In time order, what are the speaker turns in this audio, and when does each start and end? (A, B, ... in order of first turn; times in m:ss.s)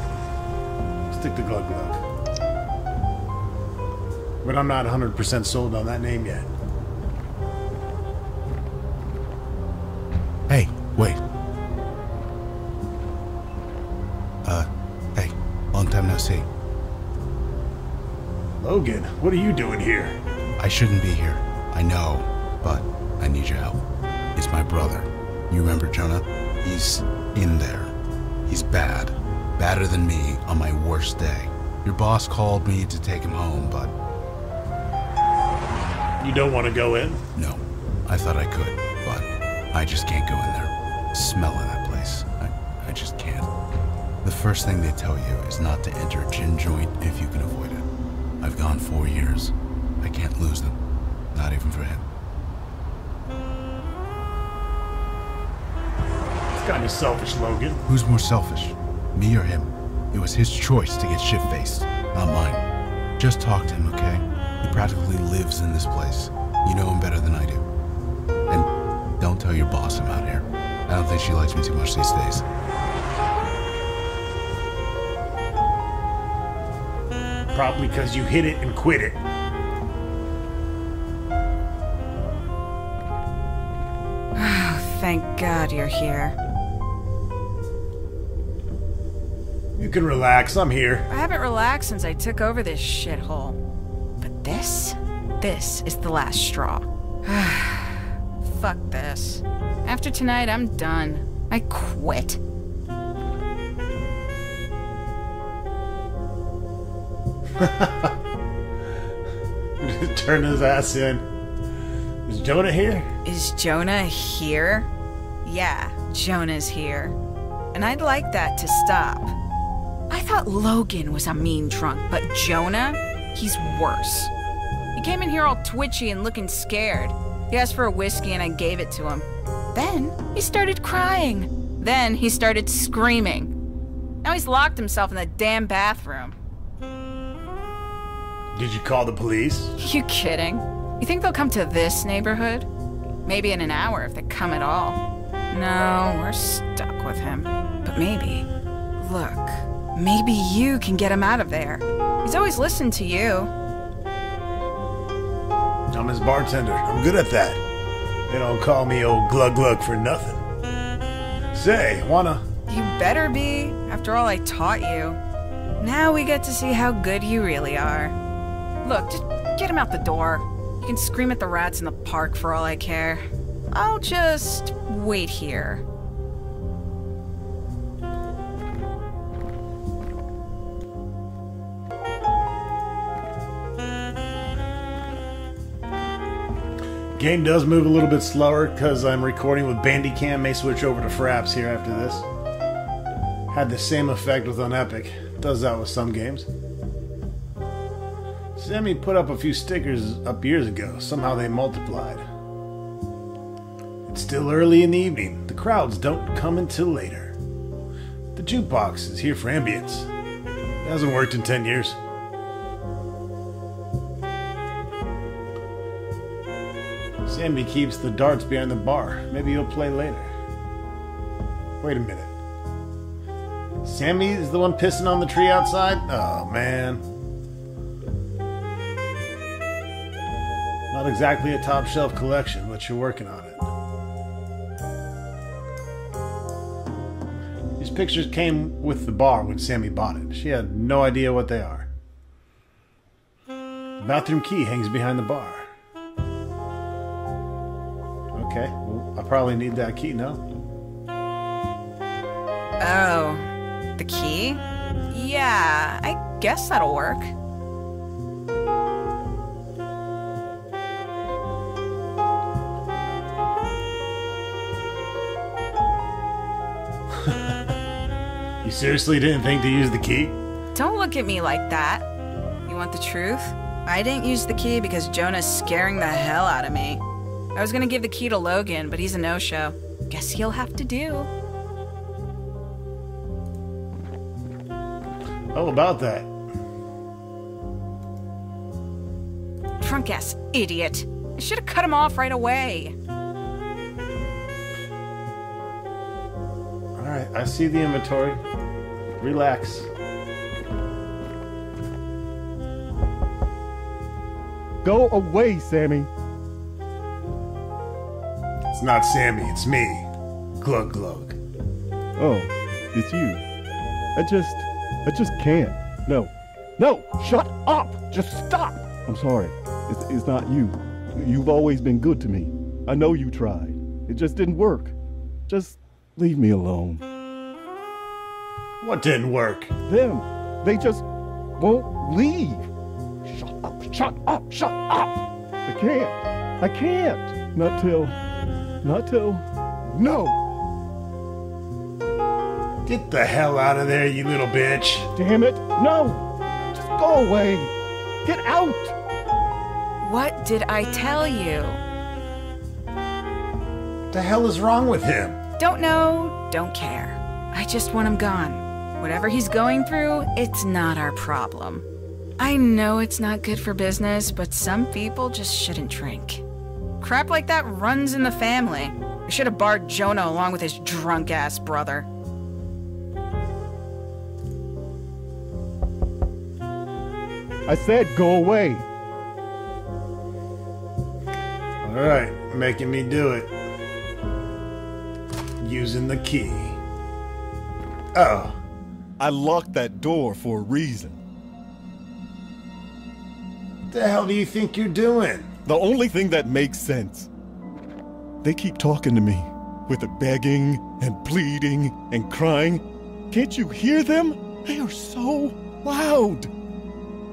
0:01.1-0:02.0 A
0:04.4-0:06.5 A
0:10.5-0:11.2 B
0:14.4-0:16.5 B
0:18.6-0:20.2 A
0:20.6-0:23.8 B
0:24.4-0:28.0 B
0:28.5-0:34.0 B
0:36.2-0:37.2 A
0:37.4-0:43.5 B
0:44.2-0:47.9 B
0:48.4-0:50.8 B
0:51.3-0:52.1 B
0:56.5-0:57.8 A
0:57.9-1:02.6 B
1:03.2-1:07.7 B
1:09.2-1:12.4 B
1:17.5-1:19.2 A
1:24.4-1:26.4 C
1:29.8-1:31.1 A
1:31.1-1:33.6 C
1:34.2-1:42.4 C
1:47.6-1:48.2 A
1:49.8-1:51.3 A
1:52.3-1:53.1 A
1:53.2-1:54.9 C
1:55.4-1:57.2 C
1:57.7-1:59.3 C
2:00.1-2:04.3 C
2:05.0-2:13.5 C
2:14.2-2:16.4 C
2:18.5-2:19.7 A
2:19.8-2:22.7 C
2:23.3-2:25.0 C
2:25.5-2:33.5 C
2:35.9-2:37.6 A
2:38.3-2:40.4 A
2:41.5-2:42.5 A
2:42.7-2:45.2 C
2:45.8-2:48.2 C
2:48.8-2:55.8 C
3:07.2-3:12.3 A
3:13.5-3:16.5 A
3:18.6-3:22.2 A
3:24.1-3:27.4 A
3:28.4-3:30.1 A
3:30.8-3:32.0 A
3:37.2-3:40.3 A
3:41.8-3:42.4 A
3:43.8-3:47.0 A
3:50.9-3:53.7 A
3:57.8-4:01.9 A
4:04.0-4:05.7 A
4:08.3-4:10.4 A
4:12.8-4:17.3 C
4:27.2-4:27.6 A
4:28.6-4:30.4 A
4:30.8-4:32.1 C
4:32.6-4:37.0 C
4:37.6-4:41.3 C
4:45.5-4:46.3 A
4:49.8-4:53.0 C
4:57.0-4:58.4 A
4:59.2-4:59.9 A
5:04.8-5:06.1 D
5:08.8-5:10.1 A
5:10.6-5:11.4 A
5:12.2-5:13.4 D
5:14.2-5:24.9 D
5:25.5-5:27.0 D
5:28.8-5:29.7 A
5:29.9-5:31.0 D
5:31.6-5:32.7 D
5:33.2-5:38.2 D
5:38.8-5:40.4 D
5:42.9-5:45.1 A
5:45.2-5:47.7 D
5:48.2-5:49.0 D
5:50.0-5:51.8 C
5:54.1-5:55.4 A
5:55.6-6:01.8 C
6:02.4-6:06.4 C
6:07.0-6:12.1 C
6:17.7-6:18.8 D
6:21.8-6:23.5 A
6:25.6-6:26.8 A
6:28.1-6:28.6 A
6:29.2-6:31.2 D
6:33.9-6:35.5 A
6:35.7-6:37.3 D
6:38.4-6:46.5 D